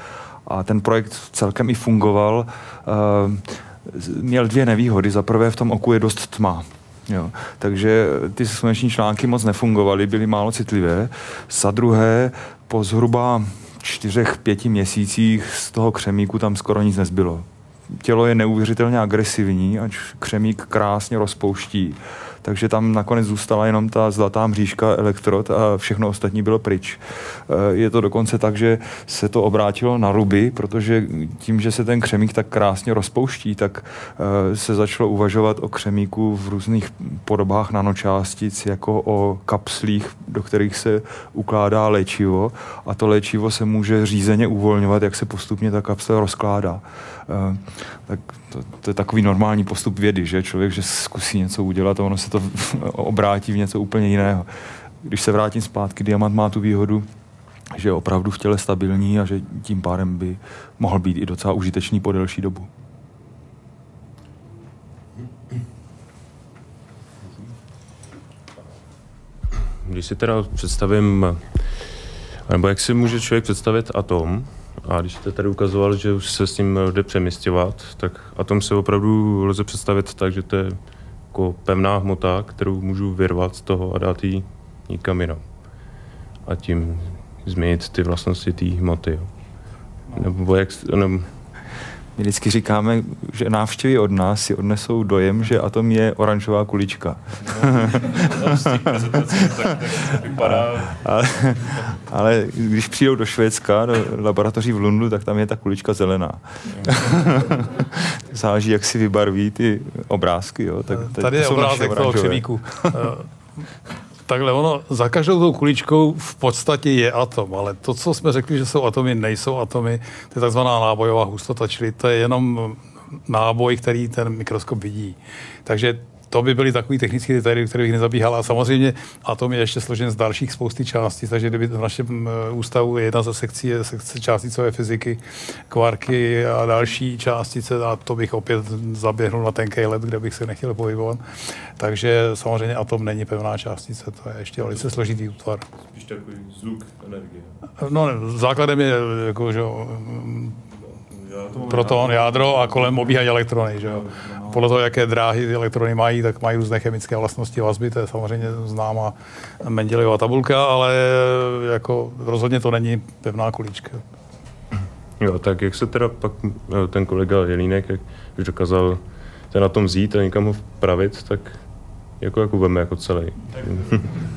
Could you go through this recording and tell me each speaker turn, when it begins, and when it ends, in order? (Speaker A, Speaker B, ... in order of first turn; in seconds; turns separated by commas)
Speaker A: 0.5-54.5, Speaker A: 55.0-57.1, Speaker A: 57.7-62.7, Speaker B: 69.8-71.9, Speaker B: 72.4-85.5, Speaker B: 86.4-89.5, Speaker B: 90.1-91.3, Speaker A: 92.2-113.1, Speaker C: 110.9-113.3, Speaker C: 114.2-145.7, Speaker B: 145.9-147.5, Speaker C: 147.8-150.6, Speaker B: 151.1-152.7, Speaker C: 151.6-164.0, Speaker B: 165.2-174.2